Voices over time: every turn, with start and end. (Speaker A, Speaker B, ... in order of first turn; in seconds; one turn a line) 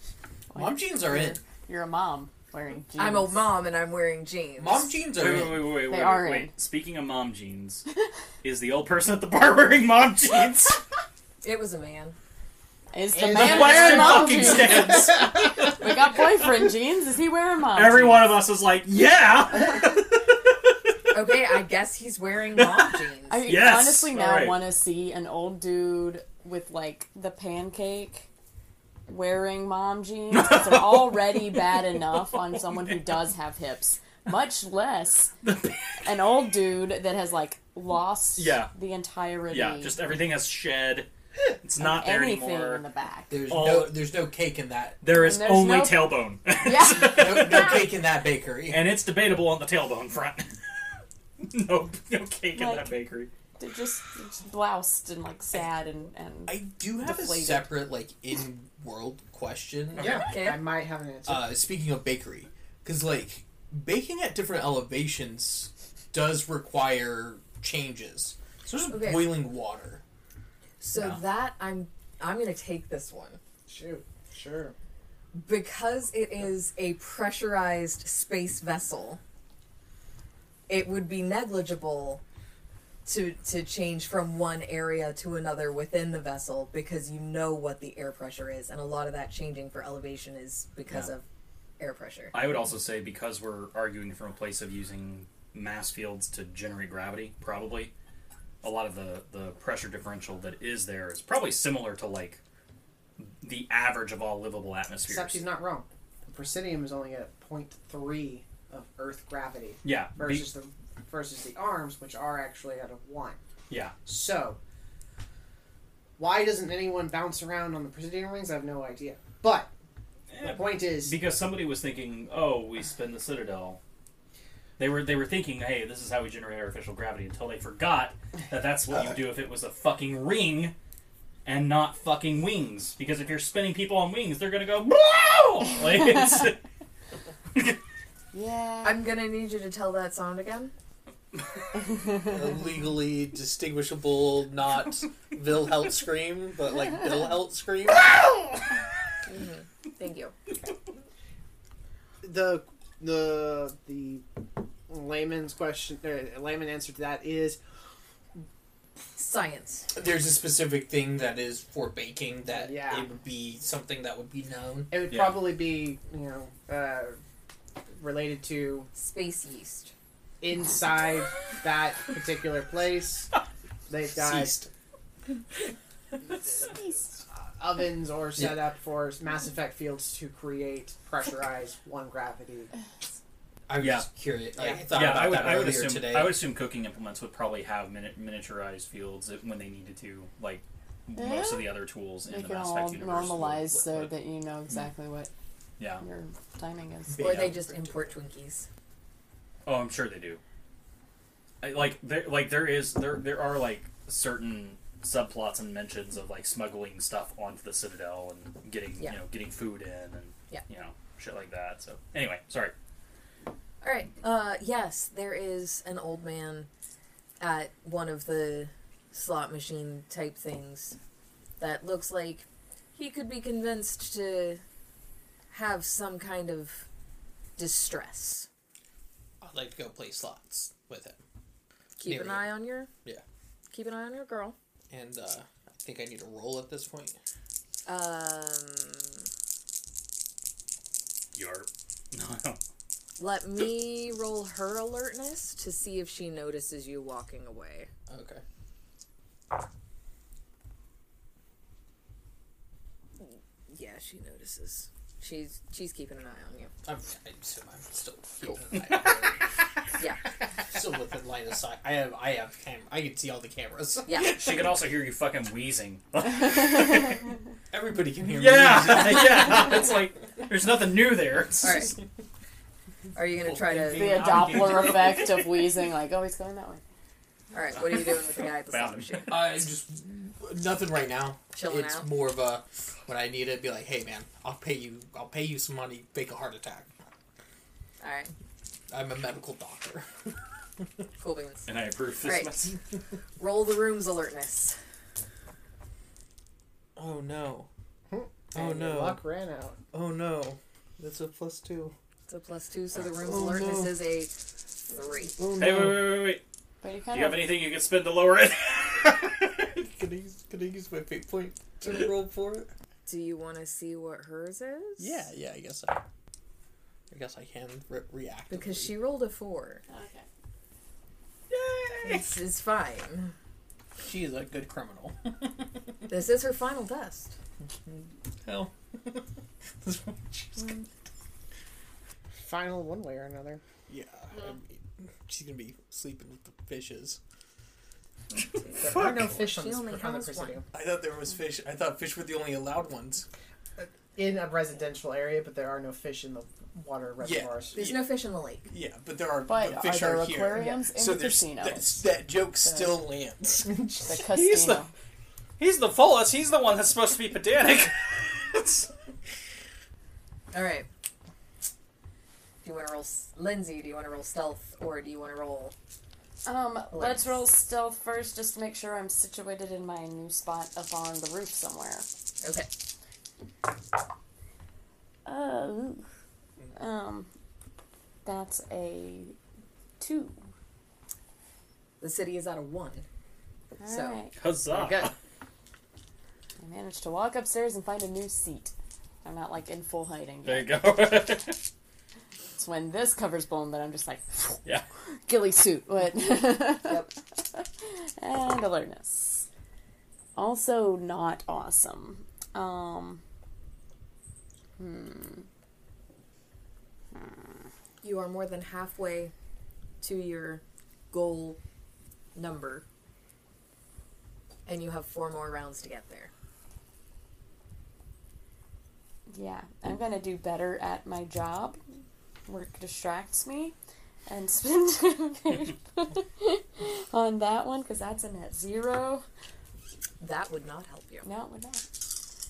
Speaker A: 0.5-3.4
Speaker B: 0.5-1.4
Speaker C: 3.0-5.0
Speaker B: 4.6-5.7
Speaker D: 5.1-7.8
Speaker A: 5.9-6.5
Speaker D: 8.4-10.8
Speaker C: 11.4-12.2
Speaker A: 12.9-18.3
Speaker E: 13.1-14.8
Speaker D: 13.2-15.7
Speaker D: 17.7-20.3
Speaker C: 21.1-23.4
Speaker D: 22.6-24.6
Speaker A: 23.3-28.3
Speaker A: 29.1-35.3
Speaker D: 30.3-31.4
Speaker D: 35.4-35.8
Speaker A: 36.0-40.0
Speaker D: 38.4-38.7
Speaker D: 39.5-41.1
Speaker D: 41.6-42.8
Speaker A: 41.8-43.4
Speaker B: 43.3-45.0
Speaker D: 43.5-44.1
Speaker D: 45.0-47.9
Speaker A: 45.1-47.7
Speaker B: 46.9-49.0
Speaker D: 48.6-50.6
Speaker D: 51.4-53.3
Speaker A: 52.5-52.9
Speaker A: 53.6-57.8
Speaker B: 56.5-60.2
Speaker E: 60.0-61.5
Speaker C: 60.0-60.7
Speaker B: 61.2-70.0
Speaker C: 68.9-69.4
Speaker C: 70.8-73.4
Speaker D: 70.9-71.2
Speaker E: 73.7-74.7
Speaker C: 75.3-79.2
Speaker C: 80.7-82.2
Speaker C: 83.0-91.2
Speaker D: 90.9-91.1
Speaker C: 91.8-92.3
Speaker D: 92.3-97.9
Speaker D: 98.6-102.4
Speaker D: 103.2-105.4
Speaker E: 105.0-113.4
Speaker D: 109.8-110.5
Speaker D: 113.7-114.0
Speaker E: 114.0-114.6
Speaker E: 116.2-119.7
Speaker D: 120.3-123.8
Speaker E: 120.4-121.2
Speaker D: 124.8-130.7
Speaker D: 131.4-136.6
Speaker A: 138.3-139.0
Speaker C: 138.8-140.7
Speaker B: 142.1-148.5
Speaker C: 149.2-150.3
Speaker E: 152.2-154.2
Speaker E: 154.9-157.6
Speaker C: 159.2-159.9
Speaker B: 159.9-165.0
Speaker E: 162.5-163.1
Speaker E: 164.9-167.2
Speaker D: 165.1-165.5
Speaker E: 167.9-168.9
Speaker C: 168.9-169.9
Speaker E: 170.4-173.3
Speaker E: 173.9-174.7
Speaker B: 174.1-174.7
Speaker E: 177.5-182.7
Speaker B: 183.7-186.4
Speaker D: 183.8-184.1
Speaker D: 184.8-194.1
Speaker A: 191.1-195.3
Speaker D: 195.8-196.0
Speaker A: 196.0-197.5
Speaker B: 197.1-198.1
Speaker C: 197.2-198.7
Speaker D: 199.6-200.4
Speaker D: 201.6-212.7
Speaker C: 213.8-216.7
Speaker C: 217.4-221.0
Speaker C: 221.6-224.6
Speaker C: 225.5-226.8
Speaker C: 227.6-228.5
Speaker B: 229.4-231.2
Speaker C: 232.0-232.9
Speaker B: 232.0-233.2
Speaker C: 233.7-234.6
Speaker B: 234.9-237.2
Speaker C: 237.8-239.2
Speaker D: 241.3-242.6
Speaker C: 243.2-247.9
Speaker B: 248.1-248.4
Speaker C: 253.2-256.7
Speaker B: 256.8-259.5
Speaker B: 260.6-264.4
Speaker C: 264.0-264.4
Speaker D: 264.2-267.2
Speaker B: 267.7-269.8
Speaker D: 268.3-271.9
Speaker C: 271.6-271.9
Speaker C: 273.1-274.2
Speaker B: 273.4-275.3
Speaker A: 273.9-276.8
Speaker D: 274.2-275.3
Speaker C: 277.5-279.4
Speaker D: 277.9-279.4
Speaker B: 279.3-286.9
Speaker C: 281.5-282.1
Speaker C: 288.0-288.3
Speaker B: 288.9-290.3
Speaker C: 291.2-291.7
Speaker D: 291.7-292.8
Speaker C: 292.2-292.7
Speaker C: 293.4-294.8
Speaker B: 296.9-297.7
Speaker E: 298.1-299.8
Speaker B: 298.5-299.2
Speaker B: 299.9-301.9
Speaker C: 302.3-304.3
Speaker B: 303.2-303.9
Speaker C: 304.9-305.4
Speaker B: 305.4-306.0
Speaker D: 305.5-306.4
Speaker A: 306.8-307.5
Speaker D: 307.1-309.5
Speaker B: 309.7-312.7
Speaker C: 313.1-315.2
Speaker B: 315.0-316.0
Speaker B: 317.1-318.9
Speaker C: 318.5-319.8
Speaker A: 319.9-320.2
Speaker B: 321.5-322.2
Speaker C: 322.0-323.3
Speaker B: 324.0-325.5
Speaker C: 326.1-327.3
Speaker B: 328.4-329.2
Speaker B: 329.8-330.7
Speaker C: 330.6-330.9
Speaker E: 332.4-333.6
Speaker B: 333.9-337.2
Speaker C: 338.3-340.6
Speaker E: 338.8-340.7
Speaker B: 338.8-339.3
Speaker B: 340.7-343.3
Speaker E: 343.8-347.8
Speaker B: 347.2-348.1
Speaker C: 347.7-348.7
Speaker B: 348.6-353.8
Speaker A: 349.5-352.1
Speaker A: 354.0-354.9
Speaker D: 354.3-354.8
Speaker D: 355.6-358.9
Speaker C: 360.5-360.9
Speaker C: 362.6-365.7
Speaker A: 366.4-372.1
Speaker C: 366.9-367.4
Speaker C: 372.4-372.7
Speaker A: 375.2-376.1
Speaker A: 376.8-377.3
Speaker A: 378.2-379.4
Speaker A: 380.0-380.4
Speaker C: 382.0-383.1
Speaker A: 383.8-384.4
Speaker C: 383.8-384.2
Speaker D: 384.4-385.1
Speaker C: 384.7-385.0
Speaker A: 386.6-390.8
Speaker D: 390.4-391.6
Speaker A: 392.6-394.6
Speaker A: 395.2-399.5
Speaker C: 396.8-397.1
Speaker A: 400.3-403.2
Speaker A: 404.8-405.5
Speaker A: 407.1-407.7
Speaker C: 408.0-409.3
Speaker C: 410.0-411.6
Speaker C: 412.3-412.8
Speaker C: 414.6-416.3
Speaker A: 419.3-421.8
Speaker A: 422.5-423.7
Speaker A: 424.3-429.2
Speaker C: 430.2-431.2
Speaker A: 431.2-431.8